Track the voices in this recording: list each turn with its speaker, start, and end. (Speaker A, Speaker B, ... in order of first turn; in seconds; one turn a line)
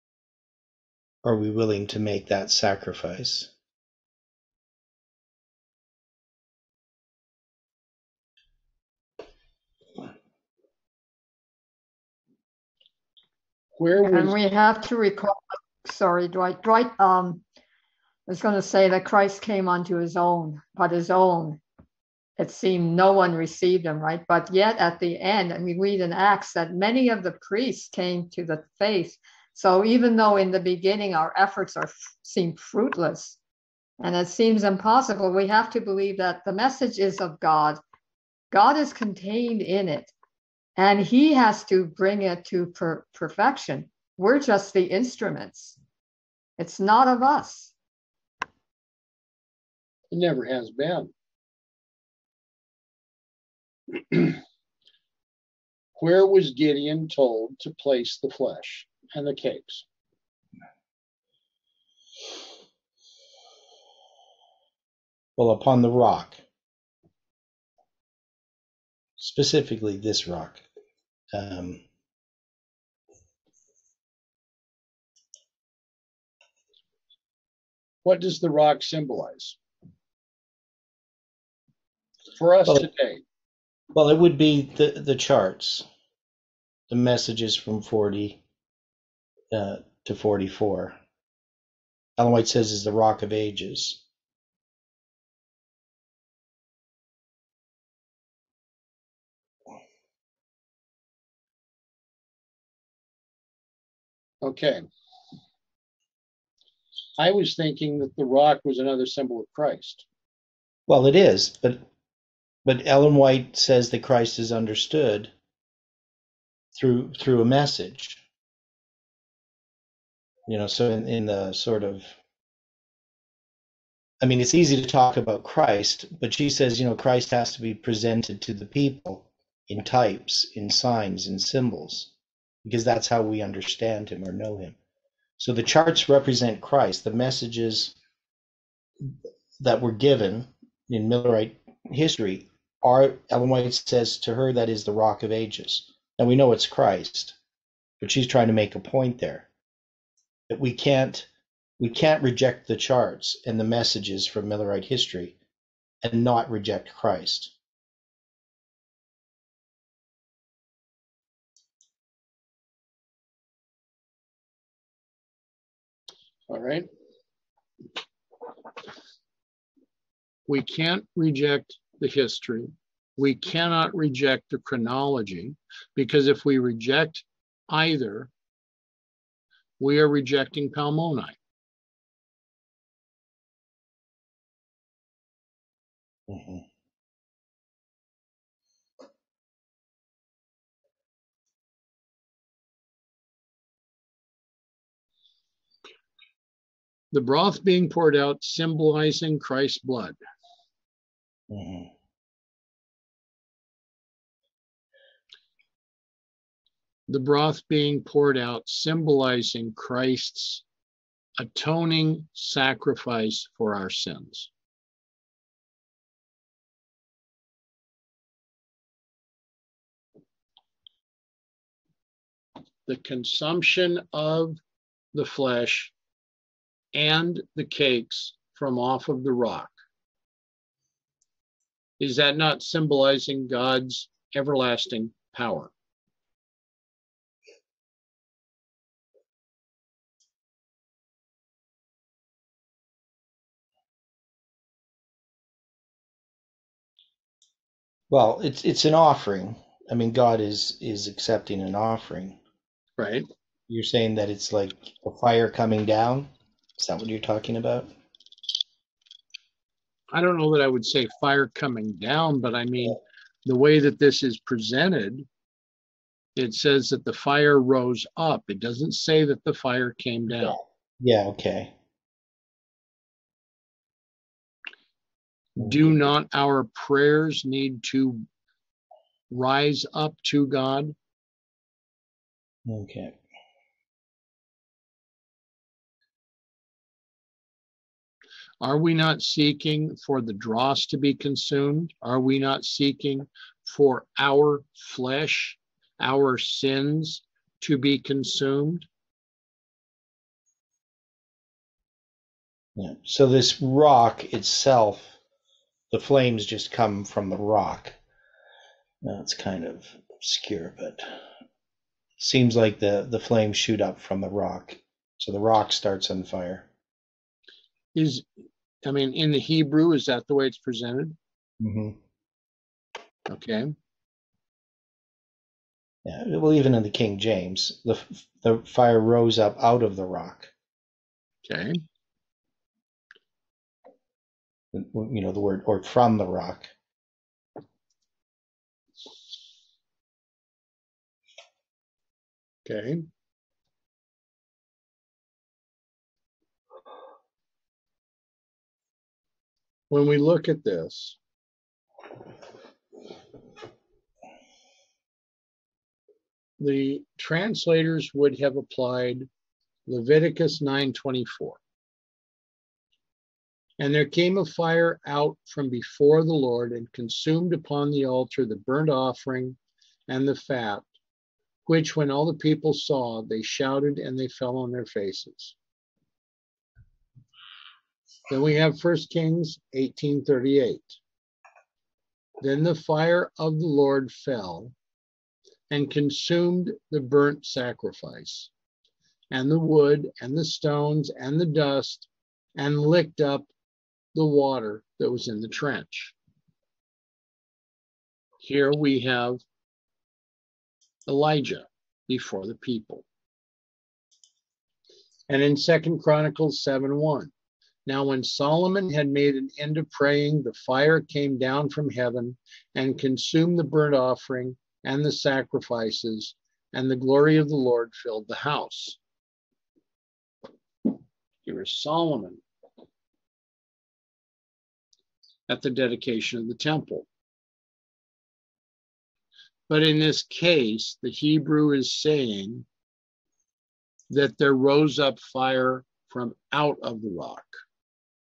Speaker A: 1.2-3.5
Speaker B: 13.8-14.3
Speaker C: 14.0-17.4
Speaker C: 18.3-21.6
Speaker C: 22.4-33.4
Speaker C: 34.0-37.8
Speaker C: 38.5-40.1
Speaker C: 40.8-45.8
Speaker C: 46.6-47.7
Speaker B: 50.1-51.1
Speaker B: 54.1-54.4
Speaker B: 56.0-59.8
Speaker A: 65.4-66.4
Speaker A: 69.2-70.6
Speaker A: 71.3-71.8
Speaker B: 78.0-79.6
Speaker B: 82.3-83.2
Speaker A: 83.9-85.8
Speaker A: 86.9-88.4
Speaker A: 89.5-91.0
Speaker A: 92.2-94.0
Speaker B: 104.4-104.8
Speaker B: 107.2-110.0
Speaker A: 110.9-111.8
Speaker A: 112.6-115.3
Speaker A: 116.7-118.2
Speaker A: 120.5-122.1
Speaker A: 124.2-132.1
Speaker A: 132.6-134.8
Speaker A: 135.4-137.9
Speaker A: 139.6-147.3
Speaker A: 148.0-149.5
Speaker A: 150.5-155.3
Speaker A: 156.0-157.5
Speaker B: 166.5-166.9
Speaker B: 170.5-178.3
Speaker B: 179.8-181.4
Speaker A: 186.3-186.6
Speaker B: 197.1-200.2
Speaker A: 201.5-201.9
Speaker B: 207.1-210.6
Speaker B: 211.4-214.5
Speaker B: 222.8-224.6
Speaker B: 225.1-225.9
Speaker B: 226.9-229.7
Speaker B: 232.0-235.7
Speaker A: 248.1-252.4
Speaker B: 253.0-253.2
Speaker A: 253.7-257.9
Speaker B: 260.1-265.2
Speaker B: 266.4-270.6
Speaker A: 271.0-271.7
Speaker B: 275.6-278.2
Speaker B: 279.3-280.9
Speaker A: 282.6-283.2
Speaker B: 288.6-298.9
Speaker A: 302.8-305.2
Speaker A: 305.9-307.9
Speaker A: 309.0-311.2
Speaker A: 312.2-316.7
Speaker B: 317.9-318.2
Speaker B: 318.8-321.1
Speaker A: 321.6-322.0
Speaker B: 323.3-323.7
Speaker A: 326.0-330.5
Speaker B: 331.4-331.8
Speaker A: 334.7-336.7
Speaker B: 342.6-343.1
Speaker B: 349.9-351.2
Speaker B: 356.6-359.3
Speaker B: 359.9-361.6
Speaker B: 363.8-370.9
Speaker B: 371.6-375.5
Speaker B: 378.3-381.0
Speaker B: 382.4-384.7
Speaker B: 385.7-388.5
Speaker B: 389.3-393.5
Speaker B: 394.1-396.1
Speaker B: 398.4-399.4
Speaker B: 401.1-403.0
Speaker B: 405.3-407.3
Speaker B: 407.9-419.0
Speaker B: 421.4-422.4
Speaker B: 425.5-427.1
Speaker B: 429.7-432.6
Speaker B: 434.1-437.5